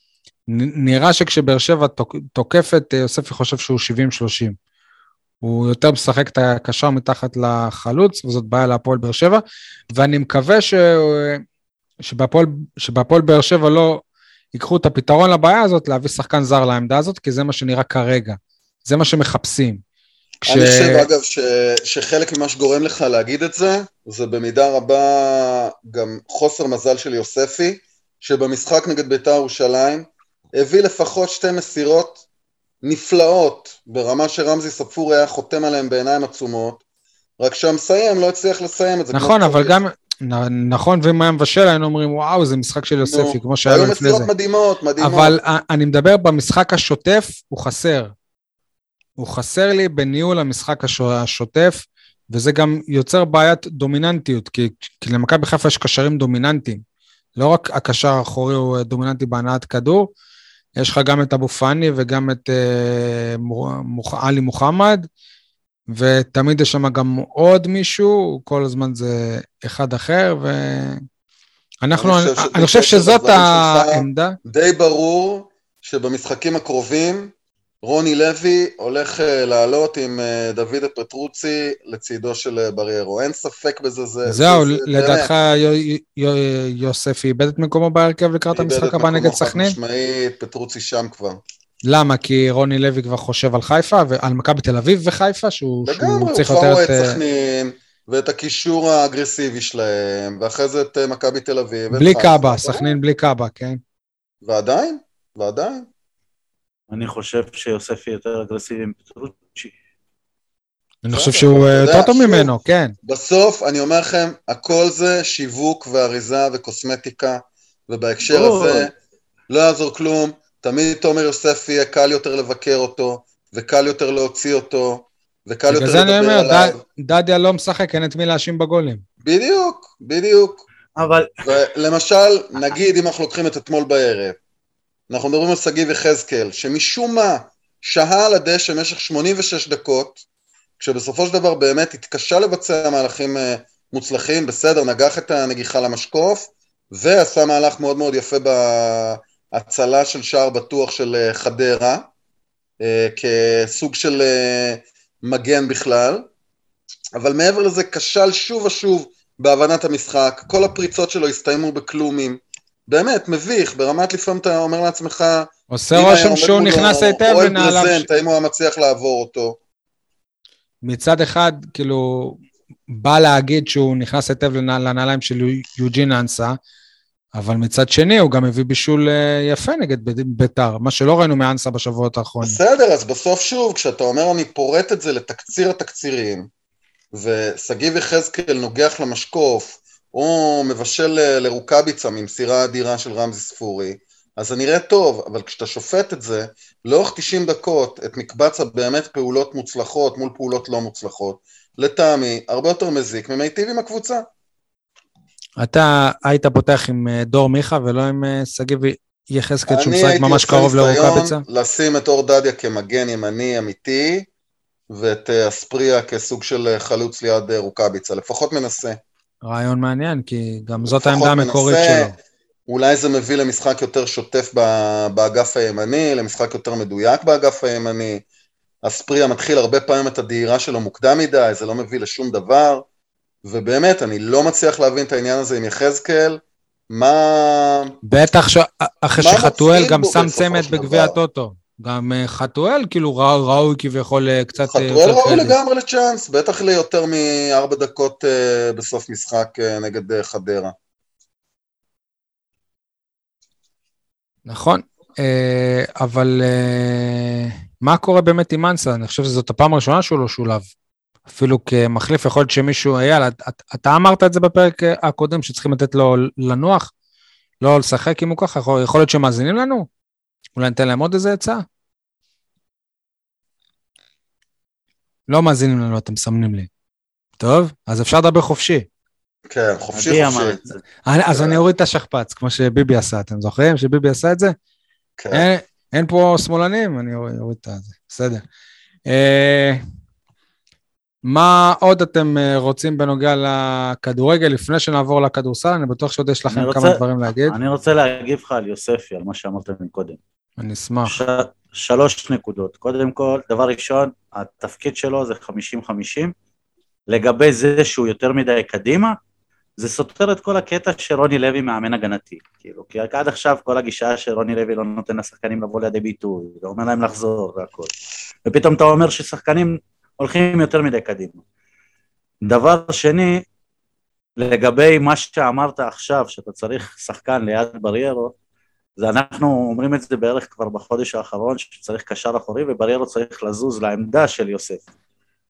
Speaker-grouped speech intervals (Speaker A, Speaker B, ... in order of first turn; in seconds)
Speaker A: 0.5-4.5, 5.4-9.4, 9.9-11.4, 12.0-14.0, 14.5-19.8, 20.4-21.1, 39.1-44.3, 45.0-48.1, 49.2-56.8, 57.4-60.1, 60.8-65.0, 65.9-71.0, 71.8-74.4, 84.2-89.8, 91.8-97.2, 101.9-103.8, 111.0-112.9, 125.7-129.0, 165.7-168.1, 170.8-172.4, 172.9-176.6, 177.3-182.6, 205.6-211.4, 219.4-222.1, 238.1-245.6, 254.4-260.7, 261.3-266.9, 267.6-269.9, 270.6-271.6, 275.3-276.7, 277.4-278.9, 281.1-284.5, 285.3-288.4, 289.1-289.8, 291.2-297.6, 300.6-301.2
Speaker B: 20.5-32.2, 32.8-36.8, 37.4-39.8, 43.0-45.4, 72.0-85.3, 88.5-91.4, 95.8-103.0, 104.4-105.9, 111.1-112.5, 113.0-118.9, 119.5-126.8, 129.2-130.6, 131.4-134.3, 135.1-140.2, 140.8-152.1, 152.8-156.3, 157.2-169.6, 182.4-186.5, 187.1-204.2, 209.7-214.3, 214.9-219.0, 220.8-222.1, 222.7-228.2, 228.8-232.8, 233.4-238.0, 239.2-241.2, 244.6-250.7, 279.5-280.6, 285.2-285.5
Speaker C: 106.9-109.7, 118.2-118.9, 131.0-131.3, 279.9-280.8, 296.5-300.2, 301.0-306.3, 307.1-309.1, 309.8-317.9, 318.4-321.4, 322.4-323.4, 324.4-328.3, 329.0-334.9